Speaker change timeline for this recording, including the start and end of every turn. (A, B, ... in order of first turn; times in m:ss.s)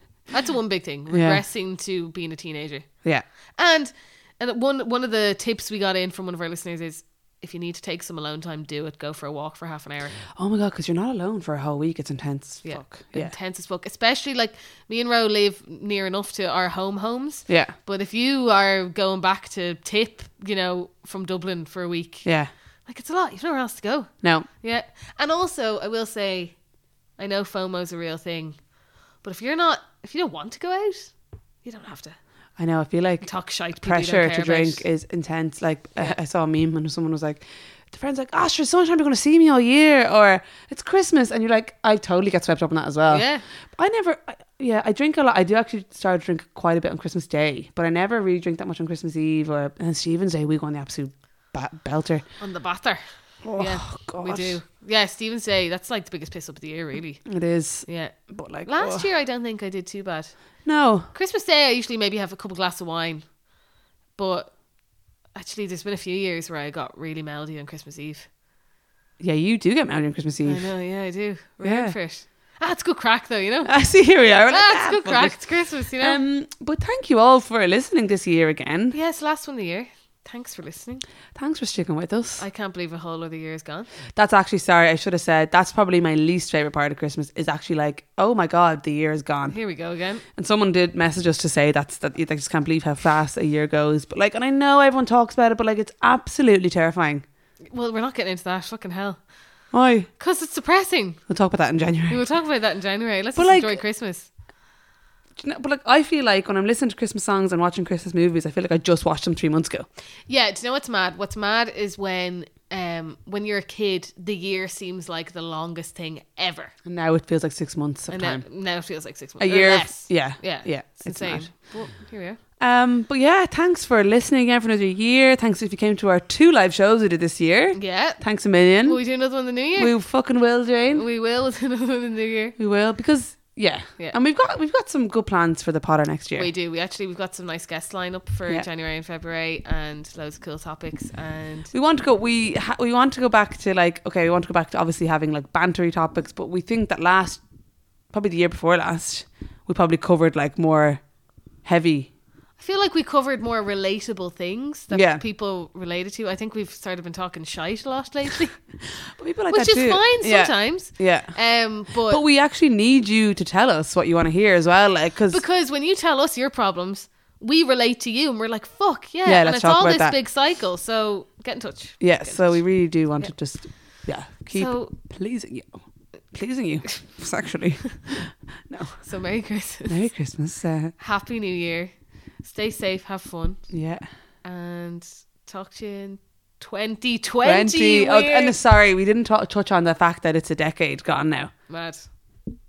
0:00.3-0:02.9 A
0:01.1-0:01.4 B
0:03.5-0:10.2 A
0:10.4-0:13.3 B
0:12.6-0:22.3 A
0:17.5-0:17.7 B
0:22.2-0:22.5 B
0:22.9-0:26.6 A
0:24.2-0:24.5 B
0:27.2-0:28.6 A
0:29.2-0:32.2 A
0:32.6-0:33.3 B
0:33.2-0:34.8 A
0:33.8-0:52.3 B
0:43.0-0:43.4 A
0:52.4-0:57.3 A
0:53.4-0:54.6 B
0:57.3-0:59.1 B
0:57.8-1:00.6 A
1:00.6-1:01.1 B
1:01.1-1:03.4 A
1:04.2-1:04.6 A
1:05.4-1:08.3 A
1:09.2-1:10.7 B
1:10.4-1:13.7 A
1:11.6-1:12.0 B
1:13.6-1:15.4 B
1:14.5-1:16.2 A
1:16.0-1:19.0 B
1:18.9-1:21.0 A
1:21.4-1:22.4 B
1:22.4-1:23.9 A
1:24.2-1:29.6 B
1:29.5-1:30.2 A
1:30.4-1:37.2 B
1:37.7-1:39.2 A
1:39.7-1:40.1 B
1:40.2-1:41.2 A
1:41.3-1:42.2 B
1:42.1-1:44.3 A
1:43.4-1:43.8 B
1:45.4-1:49.9 B
1:50.3-1:56.7 A
1:56.9-1:58.5 B
1:58.1-2:02.4 A
1:59.4-2:01.5 B
2:02.6-2:09.0 B
2:07.7-2:08.2 A
2:08.8-2:10.0 A
2:09.8-2:11.0 B
2:10.9-2:12.6 A
2:12.6-2:16.5 B
2:16.4-2:21.7 A
2:21.7-2:27.4 B
2:28.1-2:31.0 B
2:31.6-2:32.1 B
2:32.6-2:38.6 A
2:34.9-2:35.2 B
2:39.2-2:41.4 B
2:39.5-2:42.2 A
2:42.0-2:45.4 B
2:45.3-2:52.6 A
2:49.2-2:50.2 B
2:52.0-2:55.8 B
2:54.5-2:55.0 A
2:56.3-2:59.0 B
2:59.0-3:00.0 A
2:59.9-3:00.9 B
3:01.0-3:03.7 A
3:03.7-3:04.1 B
3:04.4-3:08.6 A
3:07.4-3:11.5 B
3:11.7-3:12.3 A